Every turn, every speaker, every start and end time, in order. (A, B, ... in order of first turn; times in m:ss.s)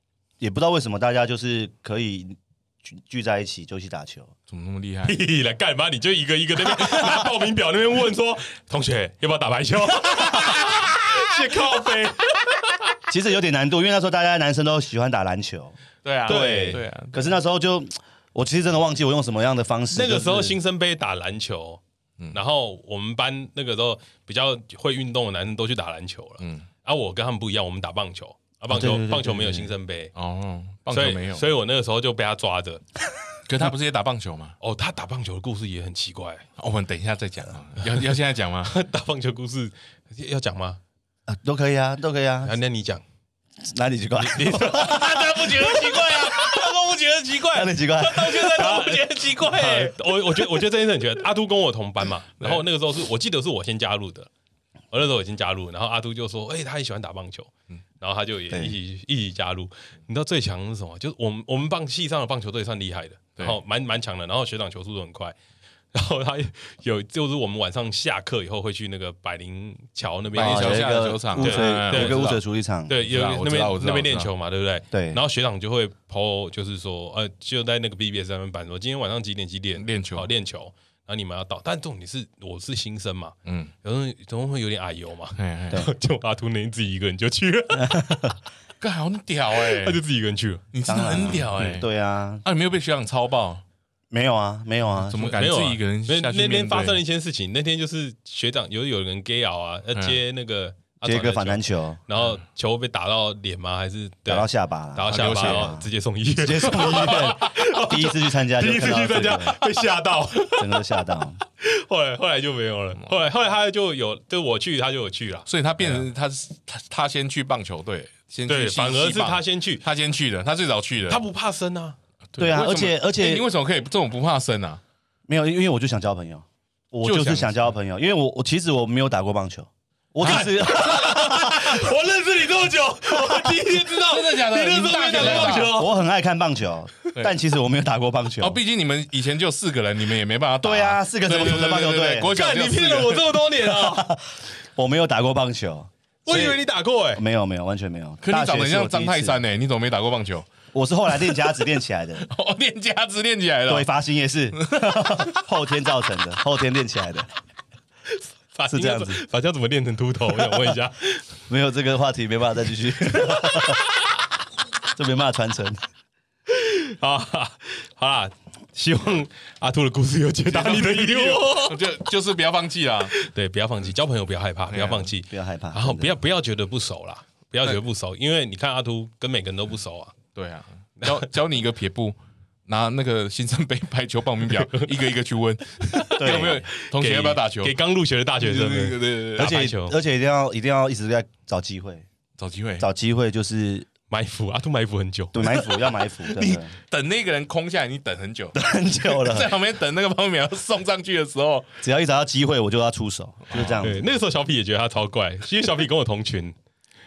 0:00.4-0:04.3 A
0:04.5-0:05.2 B
0:05.0-0:12.6 C
0:13.1-0:20.6 A
0:16.0-0:17.2 B
0:16.3-0:16.8 C
0:19.9-0:21.8 C
0:22.3-0:30.1 C
0:26.4-0:26.6 B
0:28.7-0:29.7 A
0:30.1-0:31.4 B
0:30.9-0:32.8 C
0:33.4-0:34.6 B
0:34.6-0:36.4 C
0:36.6-0:38.7 B
0:38.6-0:40.8 C
0:41.3-0:42.5 A
0:42.4-0:43.0 C
0:43.6-0:46.0 A
0:44.2-0:46.6 C
0:44.5-0:49.9 B
0:47.5-0:48.7 A
0:48.2-0:54.3 C
0:54.9-1:05.4 C
1:05.9-1:12.2 C
1:10.3-1:12.4 B
1:10.4-1:12.9 A
1:12.9-1:28.1 C
1:12.9-1:14.3 B
1:14.9-1:15.2 A
1:19.8-1:20.3 B
1:23.4-1:23.7 B
1:25.4-1:25.8 B
1:27.8-1:28.3 A
1:28.8-1:30.0 B
1:29.5-1:30.6 C
1:30.7-1:31.8 B
1:30.8-1:32.4 A
1:32.4-1:33.6 B
1:34.1-1:35.4 A
1:35.0-1:37.0 B
1:35.3-1:50.8 C
1:41.0-1:42.0 A
1:44.3-1:49.6 A
1:45.1-1:45.7 B
1:50.5-1:51.4 A
1:51.6-1:56.0 C
1:55.5-2:01.2 B
1:58.5-1:59.8 C
2:01.1-2:02.0 C
2:02.3-2:04.8 B
2:02.4-2:03.5 A
2:05.3-2:11.9 A
2:07.0-2:07.6 B
2:10.2-2:10.6 B
2:10.2-2:15.9 C
2:14.0-2:15.7 B
2:15.2-2:18.6 A
2:18.4-2:23.3 B
2:20.6-2:22.3 A
2:22.3-2:24.1 C
2:23.6-2:24.2 A
2:24.8-2:26.6 A
2:26.2-2:27.2 C
2:27.2-2:29.4 A
2:28.2-2:30.5 B
2:30.7-2:32.3 A
2:32.2-2:33.9 B
2:33.7-2:37.3 A
2:34.6-2:35.3 B
2:38.5-2:41.2 C
2:38.7-2:39.2 A
2:41.5-2:43.8 A
2:43.3-2:43.6 C
2:44.9-2:45.8 A
2:46.5-2:51.8 C
2:50.5-2:53.1 B
2:53.1-3:00.2 C
2:54.7-2:55.1 B
2:55.3-2:56.2 A
3:00.3-3:07.7 B
3:01.0-3:01.3 C
3:04.6-3:04.9 C
3:05.9-3:10.0 C
3:06.2-3:06.7 A
3:08.4-3:09.6 B
3:09.4-3:12.0 A
3:12.4-3:12.9 B
3:12.8-3:13.9 A
3:14.1-3:15.6 C
3:15.3-3:16.7 A
3:16.3-3:21.7 B
3:18.5-3:19.5 A
3:21.8-3:24.0 A
3:23.5-3:23.9 B
3:23.8-3:26.6 C